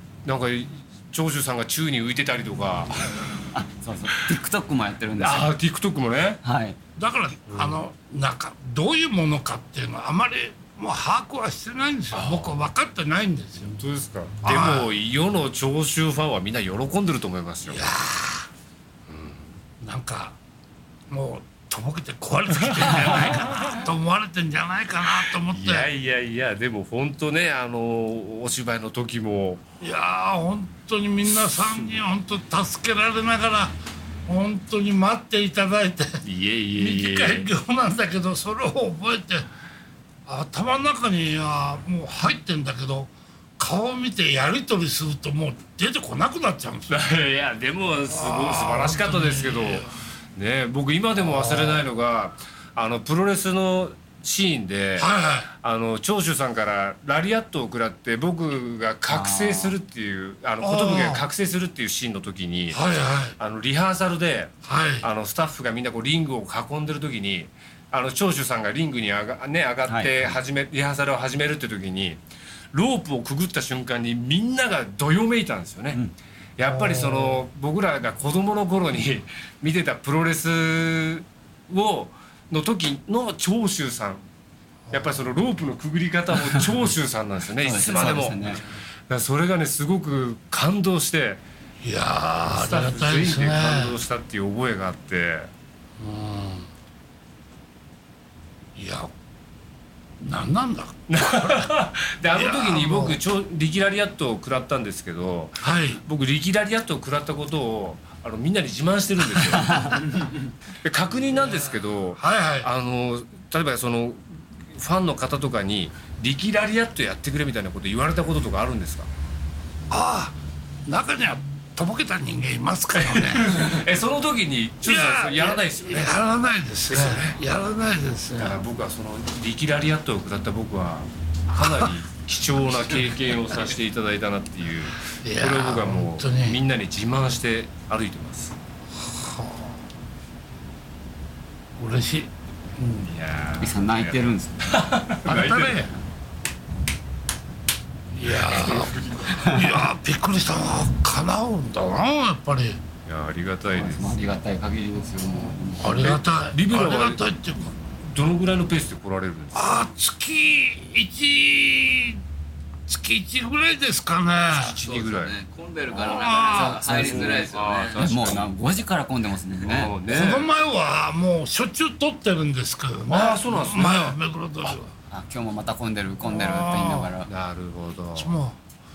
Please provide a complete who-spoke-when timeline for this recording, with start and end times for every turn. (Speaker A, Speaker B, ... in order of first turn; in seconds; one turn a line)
Speaker A: 0.2-3.4
Speaker B: 3.5-5.5
Speaker A: 5.2-6.4
Speaker B: 6.4-6.8
Speaker C: 7.0-13.8
Speaker A: 7.5-7.8
Speaker A: 12.1-12.6
Speaker A: 13.6-17.9
Speaker C: 14.4-14.9
Speaker C: 17.6-18.5
Speaker A: 19.1-19.5
Speaker C: 19.8-20.4
Speaker C: 21.1-25.9
Speaker A: 22.7-23.7
Speaker A: 25.1-29.6
Speaker C: 29.8-33.7
Speaker A: 31.4-31.7
Speaker C: 34.3-36.2
Speaker A: 36.2-37.5
Speaker C: 36.8-39.5
Speaker C: 40.2-47.0
Speaker A: 46.9-62.8
Speaker C: 48.1-49.9
Speaker C: 51.1-51.9
Speaker C: 55.0-55.5
Speaker B: 59.1-59.8
Speaker C: 60.6-61.2
Speaker C: 62.7-63.4
Speaker A: 63.4-72.2
Speaker C: 64.7-65.1
Speaker B: 69.9-70.4
Speaker A: 72.7-76.0
Speaker A: 76.6-84.2
Speaker C: 76.6-77.4
Speaker C: 84.9-85.2
Speaker A: 84.9-91.4
Speaker B: 87.6-88.6
Speaker C: 91.8-94.0
Speaker A: 92.5-95.5
Speaker C: 96.0-96.7
Speaker C: 98.8-99.1
Speaker C: 100.2-101.7
Speaker A: 101.1-110.0
Speaker C: 102.3-103.2
Speaker C: 105.6-106.0
Speaker A: 110.7-119.1
Speaker C: 112.2-112.7
Speaker C: 119.9-120.3
Speaker C: 120.9-123.5
Speaker A: 122.9-126.2
Speaker C: 124.8-128.6
Speaker A: 126.9-127.4
Speaker A: 128.4-138.6
Speaker C: 131.5-131.9
Speaker C: 135.2-136.6
Speaker C: 139.0-139.8
Speaker C: 141.8-143.1
Speaker A: 143.0-145.9
Speaker B: 143.6-144.7
Speaker C: 145.2-145.9
Speaker C: 148.1-152.8
Speaker A: 148.3-149.7
Speaker A: 153.1-154.2
Speaker B: 153.7-156.1
Speaker C: 155.8-157.7
Speaker A: 156.0-157.3
Speaker A: 158.0-159.8
Speaker C: 159.5-162.2
Speaker C: 162.9-164.8
Speaker A: 164.5-165.4
Speaker D: 164.8-168.3
Speaker A: 165.9-166.3
Speaker C: 165.9-166.9
Speaker B: 166.4-167.5
Speaker A: 166.8-168.5
Speaker B: 168.0-169.9
Speaker A: 169.6-170.5
Speaker C: 170.1-174.9
Speaker A: 173.1-174.2
Speaker B: 175.1-177.3
Speaker C: 176.2-177.1
Speaker A: 177.3-178.3
Speaker C: 178.1-178.6